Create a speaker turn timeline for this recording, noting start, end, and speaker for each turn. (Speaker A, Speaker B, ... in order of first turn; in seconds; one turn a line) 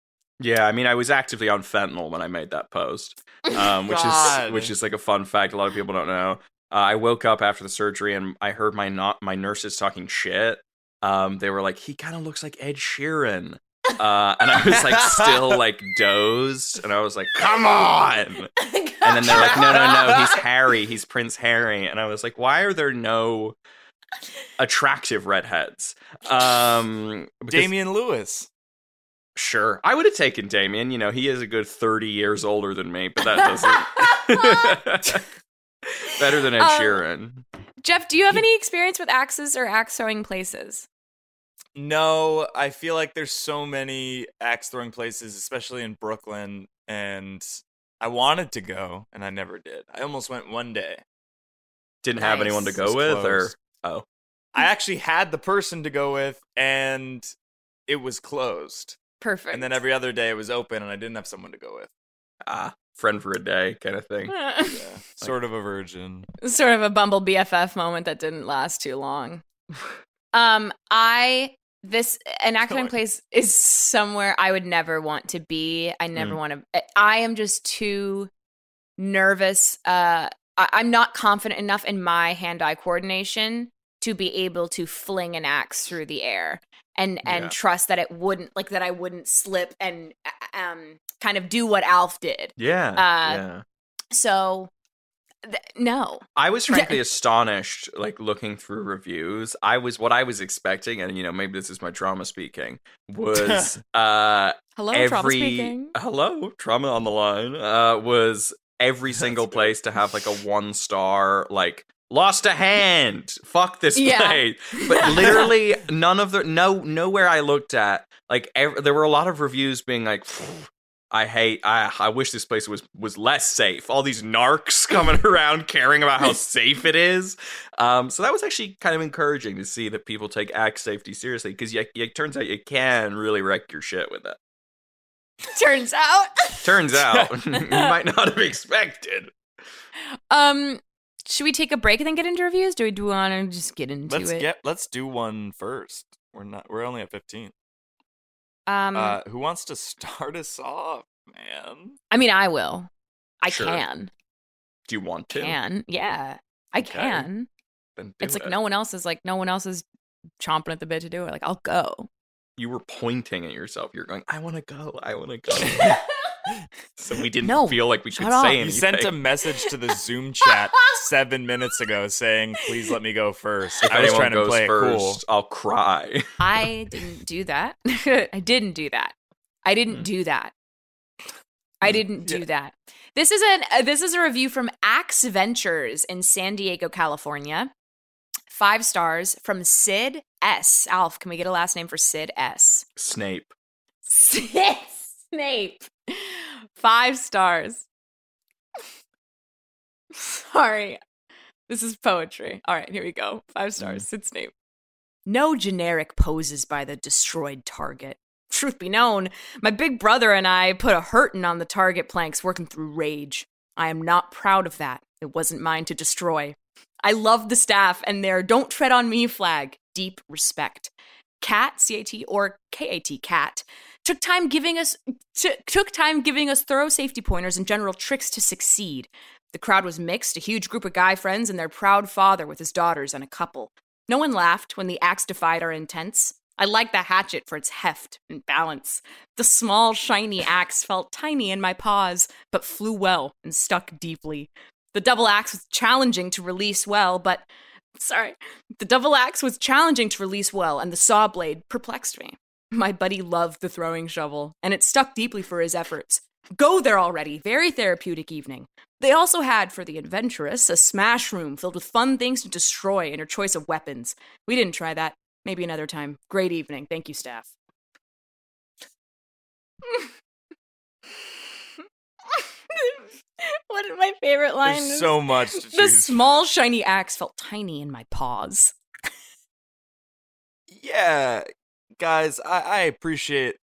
Speaker A: 0.4-18.5
Speaker B: 3.8-4.7
Speaker B: 14.9-15.6
Speaker C: 18.6-20.4
Speaker A: 19.0-23.6
Speaker B: 19.3-20.3
Speaker A: 24.6-27.7
Speaker B: 27.5-28.5
Speaker A: 29.4-35.2
Speaker C: 33.8-34.8
Speaker A: 36.0-37.5
Speaker C: 36.6-37.0
Speaker C: 37.8-40.9
Speaker B: 41.8-51.0
Speaker A: 52.0-54.0
Speaker C: 52.2-52.8
Speaker B: 52.7-53.5
Speaker B: 54.5-57.3
Speaker B: 57.9-59.0
Speaker C: 59.2-59.8
Speaker B: 59.5-61.9
Speaker A: 62.5-64.4
Speaker C: 64.3-64.8
Speaker B: 64.7-66.3
Speaker C: 66.4-69.4
Speaker C: 70.3-78.3
Speaker B: 72.7-73.0
Speaker C: 79.0-93.4
Speaker A: 87.2-87.5
Speaker A: 92.6-93.6
Speaker C: 94.1-94.7
Speaker C: 95.5-97.0
Speaker A: 96.4-134.4
Speaker B: 103.3-103.8
Speaker C: 104.8-105.9
Speaker B: 109.1-109.8
Speaker C: 114.0-115.5
Speaker C: 135.5-136.7
Speaker A: 136.6-139.3
Speaker C: 137.5-137.9
Speaker C: 140.3-144.5
Speaker B: 144.1-147.5
Speaker C: 148.7-149.2
Speaker B: 148.9-152.0
Speaker C: 152.1-152.9
Speaker C: 153.4-154.1
Speaker A: 153.5-153.8
Speaker A: 154.9-155.6
Speaker C: 155.3-157.5
Speaker A: 156.8-157.3
Speaker A: 158.0-158.6
Speaker C: 158.2-159.8
Speaker C: 160.4-162.1
Speaker A: 162.6-166.0
Speaker C: 165.7-166.0
Speaker A: 167.0-169.1
Speaker C: 167.4-168.6
Speaker B: 168.6-175.2
Speaker A: 173.8-176.3
Speaker C: 176.4-180.5
Speaker C: 181.8-187.7
Speaker C: 188.5-192.8
Speaker A: 193.0-193.5
Speaker C: 194.1-197.9
Speaker C: 200.2-201.0
Speaker C: 201.7-204.5
Speaker C: 205.3-247.5
Speaker C: 248.0-267.5
Speaker C: 272.4-278.7
Speaker B: 274.6-276.2
Speaker B: 280.7-281.5
Speaker B: 282.0-283.6